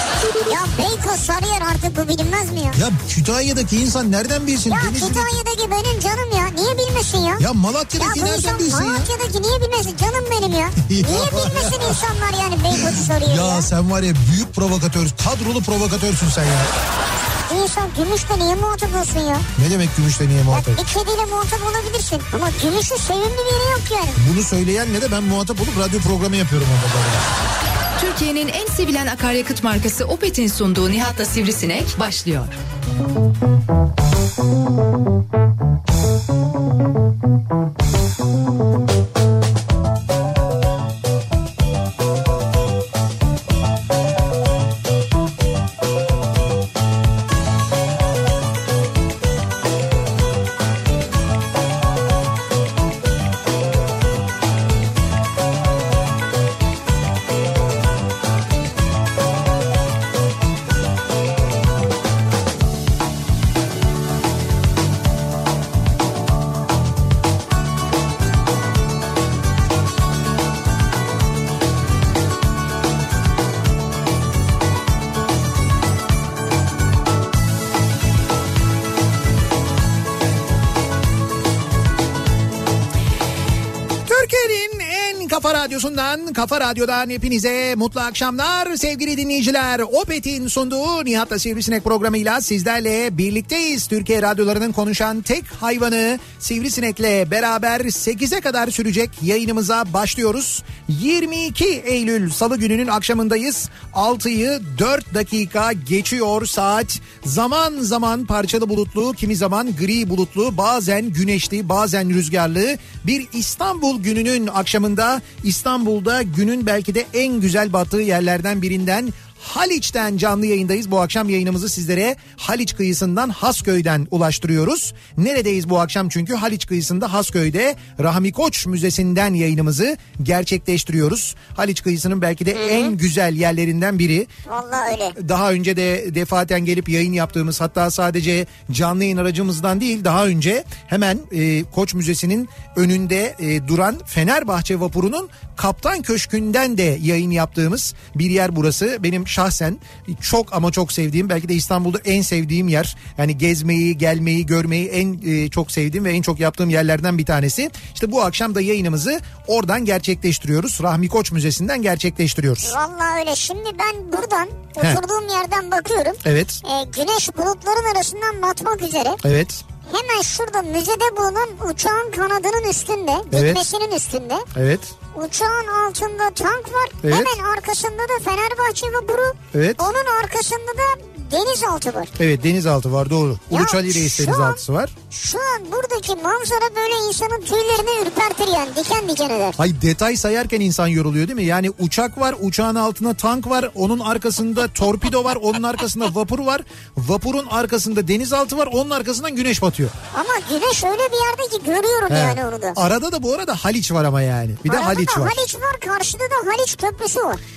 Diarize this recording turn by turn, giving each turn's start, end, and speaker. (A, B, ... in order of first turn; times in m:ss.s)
0:00.4-0:02.8 A
0:02.7-0:05.3 B
0:04.7-0:07.4 A
0:07.4-0:09.1 B
0:08.0-0:13.7 A
0:10.8-0:12.0 B
0:12.7-0:16.7 B
0:17.4-0:19.5 A
0:19.5-0:20.8 B
0:20.5-0:24.2 A
0:24.2-0:27.2 B
0:28.0-0:32.6 C
1:24.0-2:14.3 B
2:12.5-2:12.9 A
2:14.5-2:15.2 A
2:15.1-2:42.7 B
2:42.6-2:49.2 A
2:46.2-2:46.6 B
2:49.2-2:49.6 B
2:49.9-2:54.4 A
2:53.3-2:53.6 B
2:54.5-2:54.9 B
2:55.1-3:02.1 A
2:57.0-2:57.3 B
2:59.5-2:59.8 B
3:02.2-3:04.9 B
3:03.5-3:09.6 A
3:09.6-3:19.9 B
3:20.1-3:22.8 A
3:22.1-3:25.4 B
3:24.7-3:27.4 A